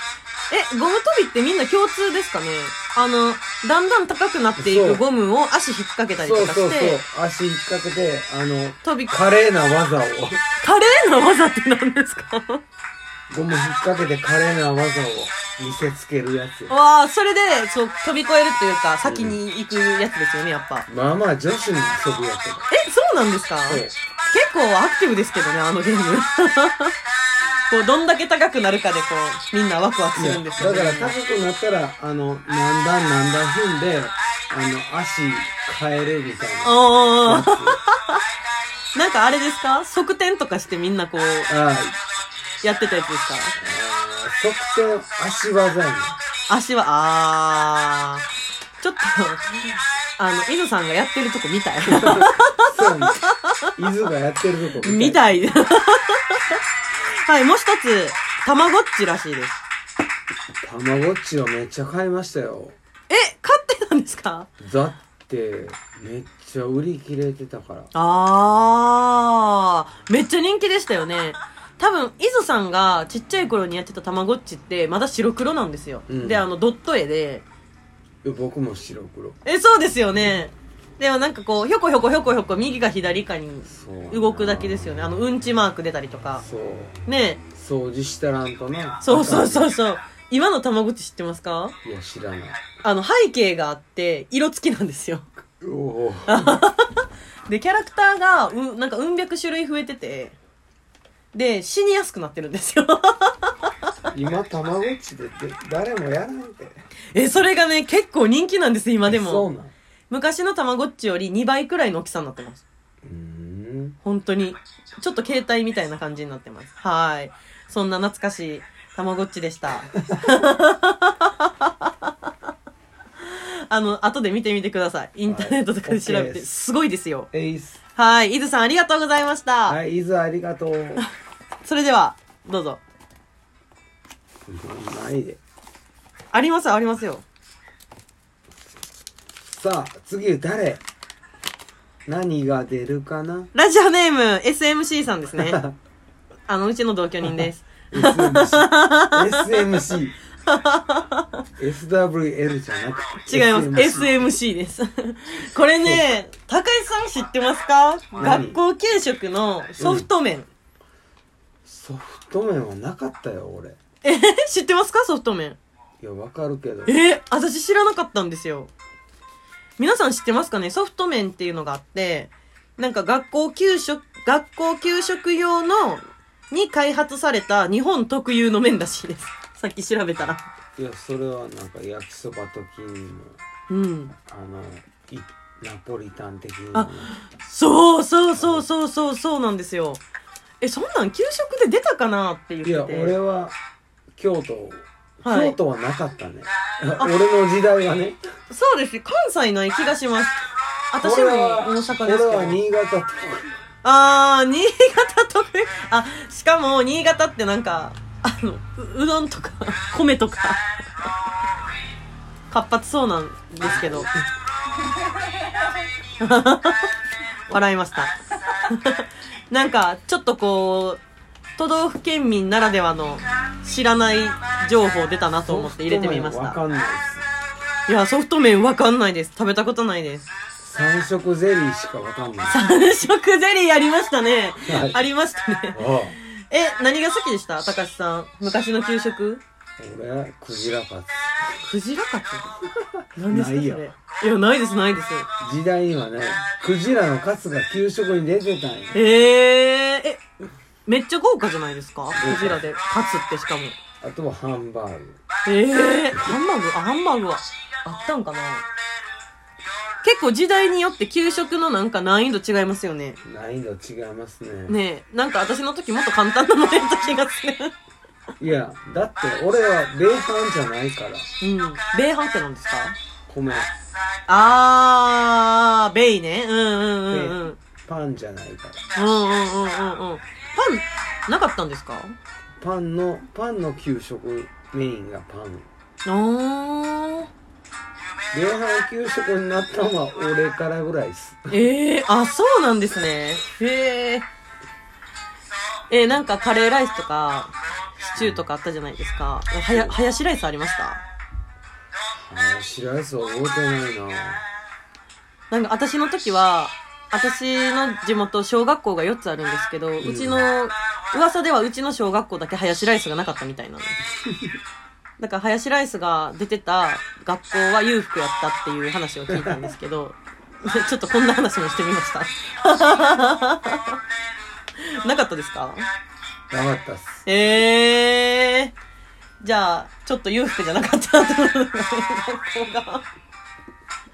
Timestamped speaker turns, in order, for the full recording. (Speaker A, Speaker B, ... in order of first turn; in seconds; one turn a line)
Speaker A: 0.5-7.0
Speaker B: 4.6-5.0
Speaker B: 6.2-10.4
Speaker A: 8.8-9.1
Speaker A: 10.6-12.6
Speaker B: 13.3-16.7
Speaker A: 16.7-20.9
Speaker B: 19.0-19.4
Speaker B: 20.9-22.7
Speaker A: 22.7-26.9
Speaker B: 23.7-23.9
Speaker A: 27.7-31.2
Speaker B: 30.1-37.8
Speaker A: 36.6-38.2
Speaker A: 38.9-41.5
Speaker B: 41.5-42.0
Speaker A: 42.6-43.5
Speaker B: 43.6-46.2
Speaker A: 46.5-48.2
Speaker A: 48.8-53.7
Speaker B: 51.9-53.2
Speaker B: 53.8-55.4
Speaker A: 54.8-56.6
Speaker A: 57.2-59.6
Speaker B: 60.6-62.8
Speaker A: 63.1-64.5
Speaker B: 64.6-67.9
Speaker A: 67.9-77.4
Speaker B: 76.1-76.5
Speaker B: 78.2-79.4
Speaker A: 79.4-86.4
Speaker B: 83.7-85.1
Speaker B: 86.4-87.0
Speaker A: 87.1-87.4
Speaker B: 87.5-89.7
Speaker A: 89.0-91.7
Speaker B: 91.8-92.6
Speaker A: 92.8-95.2
Speaker B: 95.6-96.6
Speaker A: 96.3-100.3
Speaker A: 101.3-103.7
Speaker B: 104.1-106.8
Speaker A: 107.1-109.5
Speaker B: 109.1-109.7
Speaker A: 110.1-112.6
Speaker B: 113.0-114.0
Speaker A: 114.0-122.3
Speaker A: 123.2-127.3
Speaker B: 125.3-126.5
Speaker B: 127.3-127.8
Speaker A: 128.0-129.8
Speaker B: 129.7-131.0
Speaker A: 131.6-132.8
Speaker B: 134.5-135.4
Speaker A: 136.3-137.2
Speaker B: 139.4-140.8
Speaker B: 142.1-143.5
Speaker A: 143.5-145.6
Speaker B: 145.4-145.7
Speaker A: 146.5-149.9
Speaker B: 147.2-150.2
Speaker A: 150.5-151.4
Speaker B: 151.6-154.2
Speaker A: 153.3-160.5
Speaker B: 158.2-158.6
Speaker B: 159.8-160.1
Speaker B: 161.6-163.8
Speaker A: 164.0-165.6
Speaker B: 166.0-166.9
Speaker A: 166.9-168.7
Speaker A: 169.8-180.4
Speaker B: 180.8-183.4
Speaker A: 183.7-184.1
Speaker B: 184.3-187.1
Speaker A: 186.7-190.0
Speaker B: 188.3-188.7
Speaker A: 190.6-193.2
Speaker B: 192.6-193.5
Speaker B: 194.2-198.2
Speaker A: 195.2-195.5
Speaker A: 198.5-202.6
Speaker B: 201.0-203.5
Speaker A: 203.8-210.6
Speaker A: 212.5-214.1
Speaker B: 213.6-214.2
Speaker A: 216.2-216.9
Speaker A: 217.5-218.1
Speaker A: 218.7-221.0
Speaker A: 221.6-226.6
Speaker B: 225.4-227.2
Speaker A: 227.9-230.3
Speaker B: 230.6-232.6
Speaker A: 232.5-239.4
Speaker B: 234.7-235.0
Speaker B: 235.7-236.2
Speaker B: 239.8-241.7
Speaker A: 241.6-242.5
Speaker A: 243.1-245.3
Speaker B: 243.2-243.9
Speaker B: 245.4-249.0
Speaker A: 248.9-250.2
Speaker A: 250.8-253.8
Speaker B: 252.1-252.6
Speaker B: 254.0-255.2
Speaker A: 255.4-258.6
Speaker A: 260.0-263.2
Speaker B: 263.2-264.8
Speaker A: 264.7-267.7
Speaker B: 268.4-271.3
Speaker A: 271.4-272.9
Speaker B: 273.3-273.7
Speaker A: 274.3-277.6
Speaker B: 277.1-278.8
Speaker A: 278.9-282.1
Speaker B: 282.6-285.7
Speaker A: 286.0-287.3
Speaker B: 288.3-291.6
Speaker A: 291.5-294.3
Speaker A: 295.9-301.0
Speaker B: 298.2-298.4
Speaker B: 299.7-300.0
Speaker B: 302.2-304.4
Speaker A: 305.5-314.0
Speaker B: 310.0-310.5
Speaker B: 314.2-314.6
Speaker A: 315.2-324.0
Speaker B: 319.3-319.7
Speaker A: 324.8-325.9
Speaker B: 326.5-327.2
Speaker A: 327.2-328.7
Speaker A: 329.4-333.1